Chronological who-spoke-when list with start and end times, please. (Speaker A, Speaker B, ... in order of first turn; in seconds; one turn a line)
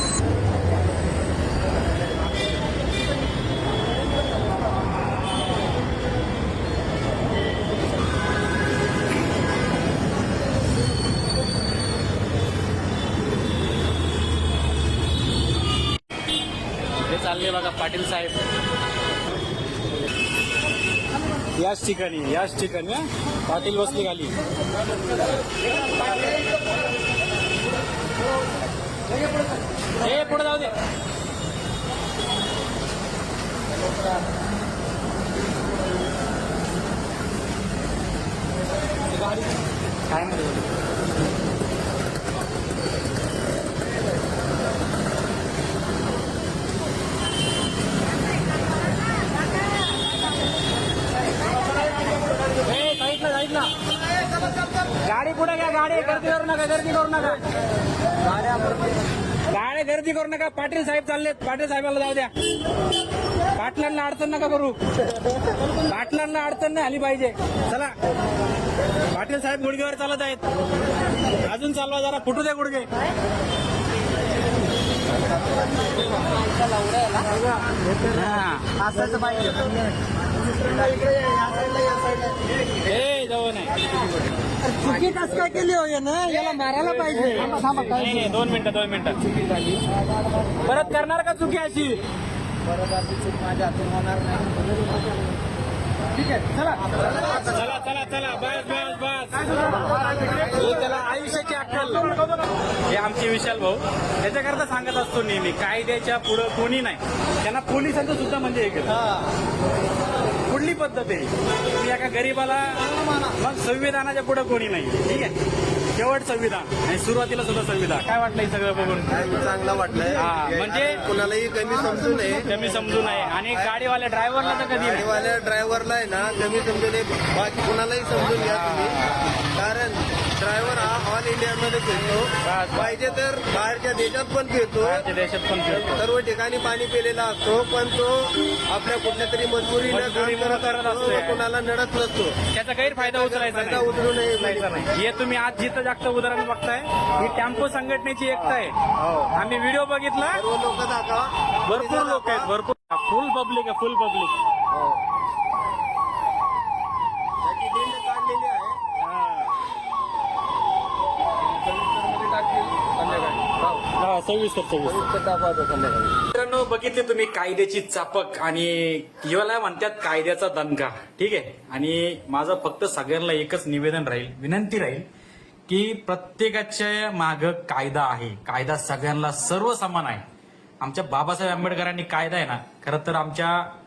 Speaker A: 17.1-18.5
Speaker A: 21.6-24.4
Speaker A: 30.0-30.7
Speaker A: 39.1-39.6
Speaker A: 40.1-40.7
Speaker A: 52.5-53.7
Speaker A: 55.0-57.4
Speaker A: 59.5-62.3
Speaker A: 63.5-64.8
Speaker A: 65.9-67.9
Speaker A: 69.1-70.5
Speaker A: 71.4-72.9
Speaker B: 77.0-77.2
Speaker A: 78.1-78.8
Speaker B: 78.9-79.7
Speaker A: 82.8-83.8
Speaker B: 84.8-87.9
Speaker A: 86.6-89.2
Speaker A: 90.6-92.0
Speaker A: 97.3-102.2
Speaker A: 102.9-109.0
Speaker A: 110.5-115.3
Speaker A: 116.0-119.2
Speaker C: 119.1-122.5
Speaker A: 120.2-121.0
Speaker A: 122.3-125.1
Speaker C: 124.7-135.1
Speaker A: 128.3-129.4
Speaker A: 132.4-133.0
Speaker A: 134.8-136.1
Speaker C: 135.8-144.9
Speaker A: 139.9-141.4
Speaker A: 142.5-148.8
Speaker C: 149.0-149.3
Speaker A: 149.3-150.4
Speaker C: 150.3-152.5
Speaker A: 151.7-154.4
Speaker C: 154.7-155.0
Speaker C: 157.4-158.8
Speaker A: 159.0-159.5
Speaker C: 161.7-163.8
Speaker A: 163.9-165.1
Speaker C: 164.9-166.2
Speaker A: 166.3-175.1
Speaker A: 175.7-180.2
Speaker A: 180.8-183.7